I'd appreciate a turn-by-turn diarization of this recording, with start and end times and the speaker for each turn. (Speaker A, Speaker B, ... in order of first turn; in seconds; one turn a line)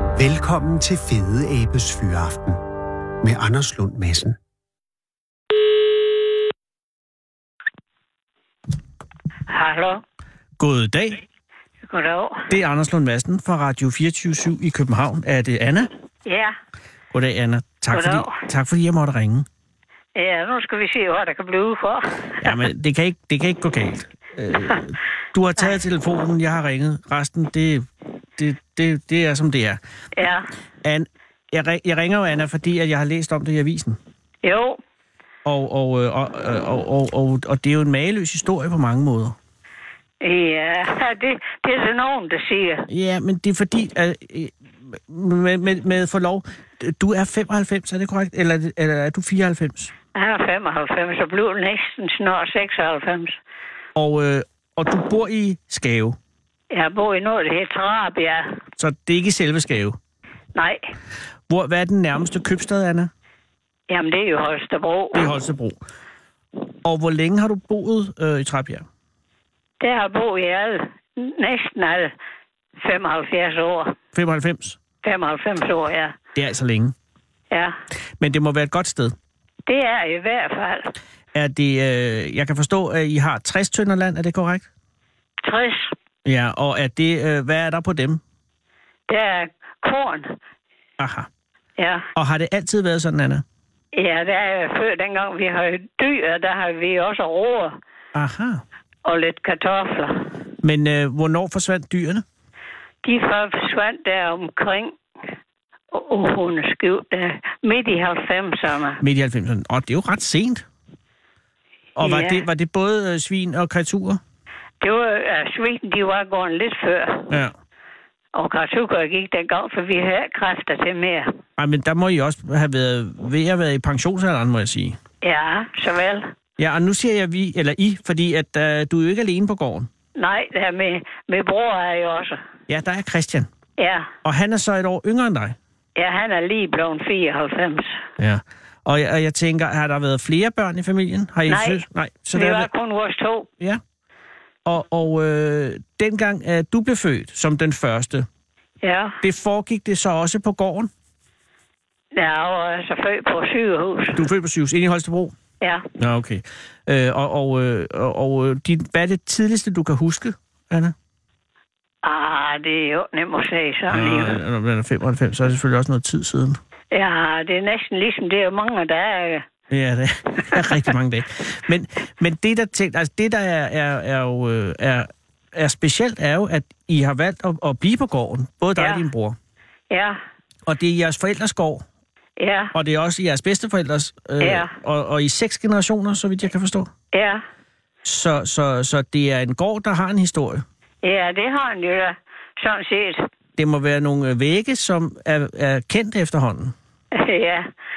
Speaker A: 0.2-2.6
Speaker A: 3.2-4.4
Speaker B: 9.5-10.0
Speaker C: 10.6-11.2
Speaker B: 11.9-12.5
Speaker C: 12.5-15.9
Speaker B: 16.3-16.6
Speaker C: 17.1-19.5
Speaker B: 17.9-18.4
Speaker B: 20.2-22.6
Speaker C: 22.4-29.8
Speaker B: 30.2-30.5
Speaker C: 30.8-34.0
Speaker B: 34.4-34.8
Speaker C: 35.5-39.4
Speaker B: 40.2-42.9
Speaker C: 42.9-49.9
Speaker B: 50.1-53.4
Speaker C: 54.0-56.2
Speaker B: 56.7-58.6
Speaker C: 58.8-60.0
Speaker B: 60.5-60.9
Speaker C: 61.5-63.1
Speaker B: 63.9-65.3
Speaker C: 65.1-65.8
Speaker C: 66.8-68.9
Speaker B: 69.8-72.1
Speaker B: 72.8-74.0
Speaker C: 74.1-74.8
Speaker B: 75.0-76.2
Speaker C: 76.3-77.0
Speaker B: 77.5-77.8
Speaker C: 78.2-79.2
Speaker B: 79.7-80.9
Speaker C: 81.3-84.7
Speaker B: 85.4-85.9
Speaker C: 86.2-88.2
Speaker B: 89.1-90.4
Speaker C: 91.0-91.3
Speaker B: 91.8-92.1
Speaker C: 92.2-93.4
Speaker B: 93.9-97.8
Speaker C: 98.1-98.6
Speaker B: 99.0-100.3
Speaker C: 100.6-102.2
Speaker B: 103.0-105.0
Speaker B: 105.9-109.0
Speaker C: 109.0-110.7
Speaker C: 112.0-114.2
Speaker B: 112.0-112.4
Speaker B: 114.8-117.3
Speaker C: 117.3-117.5
Speaker B: 118.3-121.3
Speaker C: 121.6-125.0
Speaker B: 125.2-126.3
Speaker C: 126.6-129.9
Speaker B: 130.2-132.4
Speaker C: 132.7-133.5
Speaker B: 133.8-134.1
Speaker C: 134.2-135.6
Speaker B: 136.0-138.0
Speaker C: 138.2-142.7
Speaker B: 141.5-141.8
Speaker B: 142.3-143.5
Speaker C: 144.7-148.3
Speaker B: 148.8-149.2
Speaker C: 149.2-150.9
Speaker B: 152.2-154.2
Speaker C: 154.2-155.3
Speaker B: 155.6-155.9
Speaker C: 156.0-160.9
Speaker B: 162.0-164.4
Speaker C: 163.9-166.6
Speaker B: 166.9-169.4
Speaker C: 169.7-179.4
Speaker B: 178.8-179.1
Speaker B: 179.9-180.2
Speaker C: 180.7-181.8
Speaker B: 182.4-182.7
Speaker C: 182.7-186.9
Speaker B: 184.4-184.7
Speaker B: 187.1-187.4
Speaker C: 188.0-190.7
Speaker B: 191.0-193.3
Speaker C: 193.6-196.8
Speaker B: 197.1-197.7